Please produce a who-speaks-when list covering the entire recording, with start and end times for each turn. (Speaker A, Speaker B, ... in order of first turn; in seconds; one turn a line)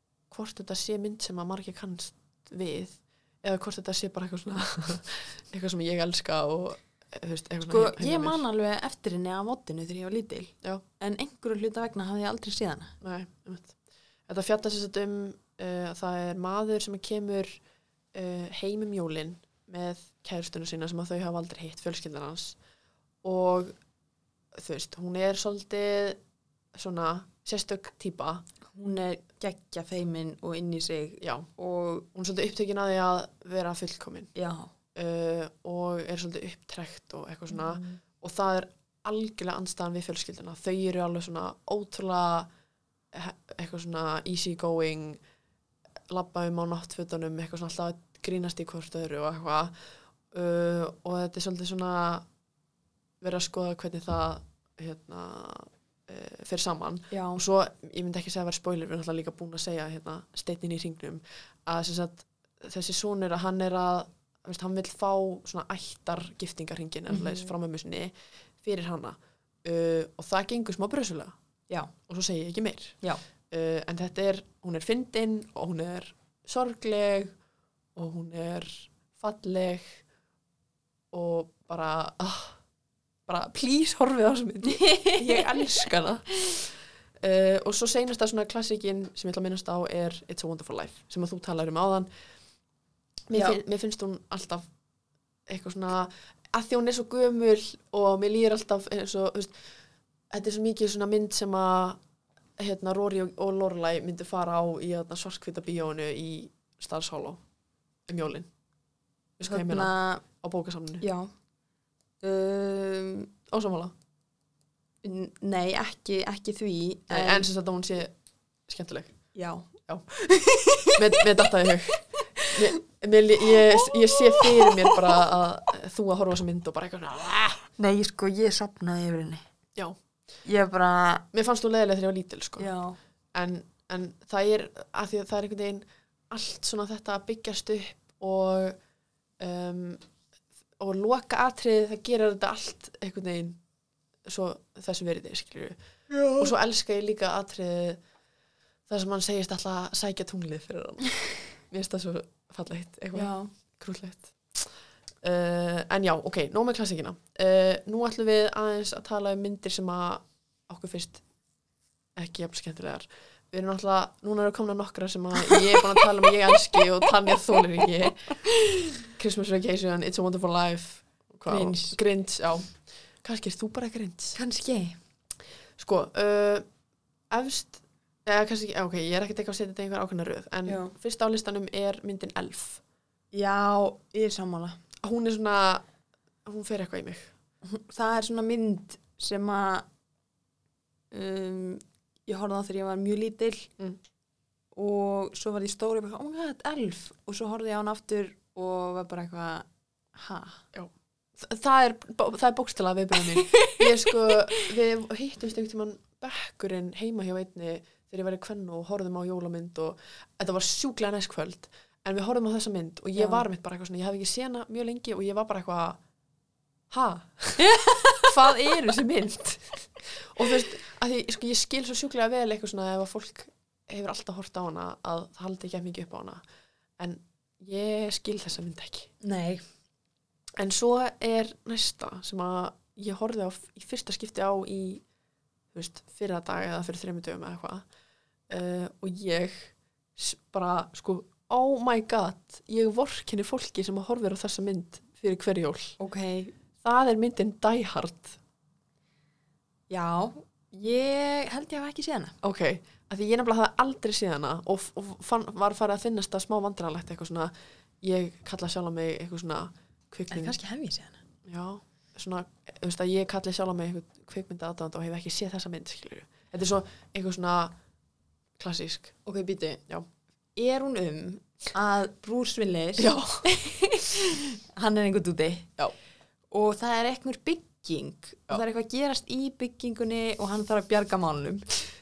Speaker A: 0.3-8.4
Speaker B: 7.7-12.9
Speaker A: 13.0-13.8
Speaker A: 14.3-17.6
Speaker A: 18.1-22.6
Speaker A: 23.2-23.7
Speaker A: 24.5-26.2
Speaker A: 26.8-28.4
Speaker B: 28.7-32.1
Speaker A: 31.2-31.5
Speaker A: 32.1-34.3
Speaker B: 34.4-34.7
Speaker A: 35.0-42.5
Speaker B: 37.5-38.0
Speaker A: 43.1-45.2
Speaker A: 46.1-49.7
Speaker A: 50.3-52.2
Speaker A: 53.2-71.3
Speaker B: 57.1-57.4
Speaker B: 67.1-67.5
Speaker A: 72.1-73.0
Speaker A: 73.5-77.3
Speaker A: 78.0-80.0
Speaker A: 81.1-82.6
Speaker A: 83.3-92.1
Speaker B: 84.6-85.6
Speaker A: 93.3-94.7
Speaker B: 93.3-93.6
Speaker A: 95.5-99.6
Speaker A: 100.3-102.0
Speaker A: 102.6-107.4
Speaker A: 108.1-108.5
Speaker A: 109.4-111.0
Speaker B: 109.4-110.2
Speaker B: 111.0-111.3
Speaker B: 112.2-113.3
Speaker A: 113.5-113.9
Speaker B: 115.0-117.5
Speaker A: 117.1-118.1
Speaker A: 118.7-119.1
Speaker B: 119.3-121.3
Speaker A: 121.0-127.6
Speaker B: 122.4-122.8
Speaker B: 123.5-125.1
Speaker B: 127.8-129.4
Speaker B: 130.4-131.2
Speaker A: 131.3-132.7
Speaker B: 132.6-133.0
Speaker A: 133.3-138.8
Speaker A: 139.4-140.0
Speaker A: 140.8-143.6
Speaker A: 144.2-145.8
Speaker B: 146.1-146.5
Speaker A: 146.4-148.0
Speaker A: 148.9-154.7
Speaker B: 153.2-153.5
Speaker A: 155.2-161.2
Speaker A: 162.2-168.3
Speaker B: 165.4-166.0
Speaker B: 168.4-169.0
Speaker A: 169.2-174.4
Speaker B: 171.5-172.0
Speaker B: 174.3-175.0
Speaker A: 175.8-176.7
Speaker A: 177.3-182.8
Speaker B: 180.7-180.9
Speaker B: 183.3-184.8
Speaker A: 185.0-185.8
Speaker A: 186.4-187.3
Speaker B: 187.6-189.9
Speaker B: 191.1-193.7
Speaker B: 194.8-200.6
Speaker A: 200.7-216.0
Speaker B: 203.4-204.7
Speaker B: 213.2-213.4
Speaker A: 216.9-226.4
Speaker B: 217.6-218.3
Speaker A: 227.0-229.1
Speaker B: 229.2-229.6
Speaker A: 230.6-235.0
Speaker A: 235.7-237.8
Speaker A: 238.5-246.0
Speaker B: 246.0-246.5
Speaker A: 246.8-248.4
Speaker B: 249.9-252.3
Speaker A: 252.4-260.6
Speaker B: 260.3-261.2
Speaker A: 261.4-267.8
Speaker A: 268.6-269.2
Speaker B: 269.2-269.8
Speaker B: 270.6-275.7
Speaker A: 273.0-273.4
Speaker B: 276.5-281.6